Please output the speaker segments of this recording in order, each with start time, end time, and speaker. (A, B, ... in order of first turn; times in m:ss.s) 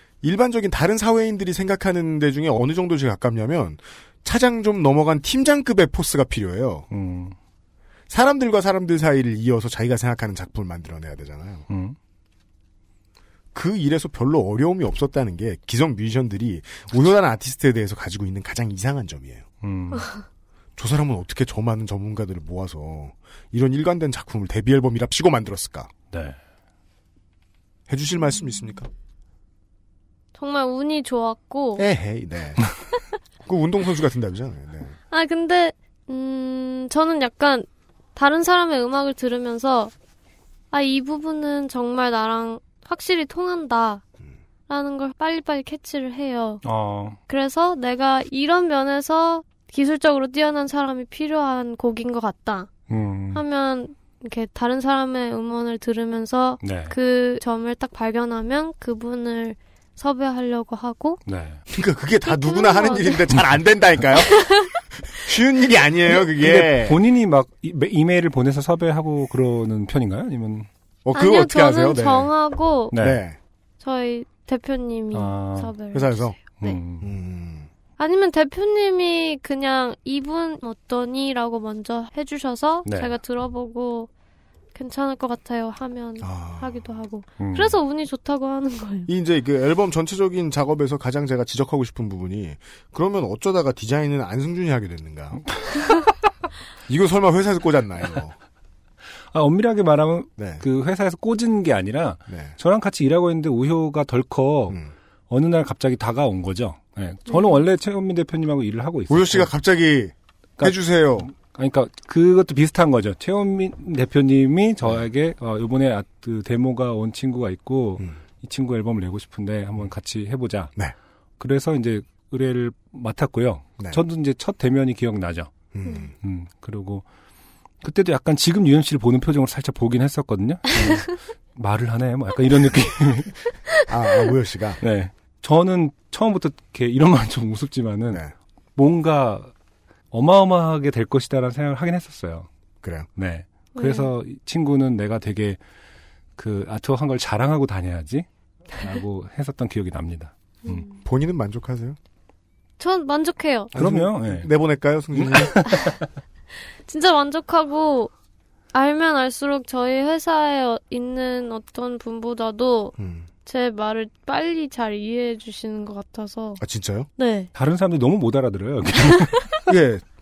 0:00.2-0:06.9 A
0:06.9-0:07.3 B
0:08.1-0:11.6 A
0:11.7-0:12.0 B
0:13.5-0:19.4 A
0:19.6-0:20.1 B
0:20.8-0:25.9 A
0:26.1-0:26.4 B
0:27.9-0:28.9 A
0:30.4-0:31.9 C
0:31.8-0:32.6 A
0:33.4-0:34.9 A
0:35.1-0:39.9 C
0:40.7-0:44.0 C
0:44.7-0:46.6 C
0:46.6-0:47.2 B
0:47.3-0:52.7 C
0:52.9-0:53.4 B
0:53.3-1:01.2 C
0:56.6-0:56.9 B
1:01.2-1:01.6 B
1:01.7-1:04.4 A
1:02.2-1:03.2 C
1:04.2-1:04.7 C
1:05.2-1:07.0 A
1:06.4-1:10.7 B
1:11.0-1:12.3 A
1:11.1-1:13.0 C
1:12.9-1:13.2 B
1:12.9-1:13.4 A
1:13.8-1:16.8 C
1:15.1-1:15.7 B
1:15.9-1:16.4 A
1:16.6-1:17.1 B
1:17.0-1:17.7 A
1:18.0-1:24.1 C
1:22.8-1:23.2 B
1:24.7-1:29.1 C
1:26.2-1:26.9 A
1:27.4-1:27.8 B
1:29.1-1:35.4 A
1:35.5-1:35.8 B
1:36.9-1:38.4 A
1:39.3-1:44.8 B
1:40.4-1:40.6 A
1:42.3-1:42.5 A
1:45.3-1:49.5 B
1:47.3-1:47.6 C
1:49.1-1:51.3 A
1:50.6-2:00.7 B
2:01.4-2:05.5 B
2:05.7-2:06.1 A
2:05.8-2:06.1 C
2:06.2-2:07.0 B
2:07.8-2:13.4 B
2:13.9-2:14.8 A
2:14.8-2:18.2 B
2:18.8-2:19.5 B
2:20.1-2:22.5 B
2:22.8-2:23.1 A
2:23.2-2:25.6 B
2:23.7-2:24.1 C
2:26.4-2:30.8 B
2:30.6-2:31.0 C
2:31.0-2:32.0 A
2:32.8-2:33.7 C
2:33.7-2:35.6 A
2:33.7-2:34.5 B
2:35.1-2:36.1 B
2:36.8-2:38.1 C
2:38.7-2:46.6 C
2:43.0-2:43.3 A
2:46.6-2:47.1 A
2:47.2-2:47.5 C
2:47.5-2:49.5 B
2:49.7-2:50.0 A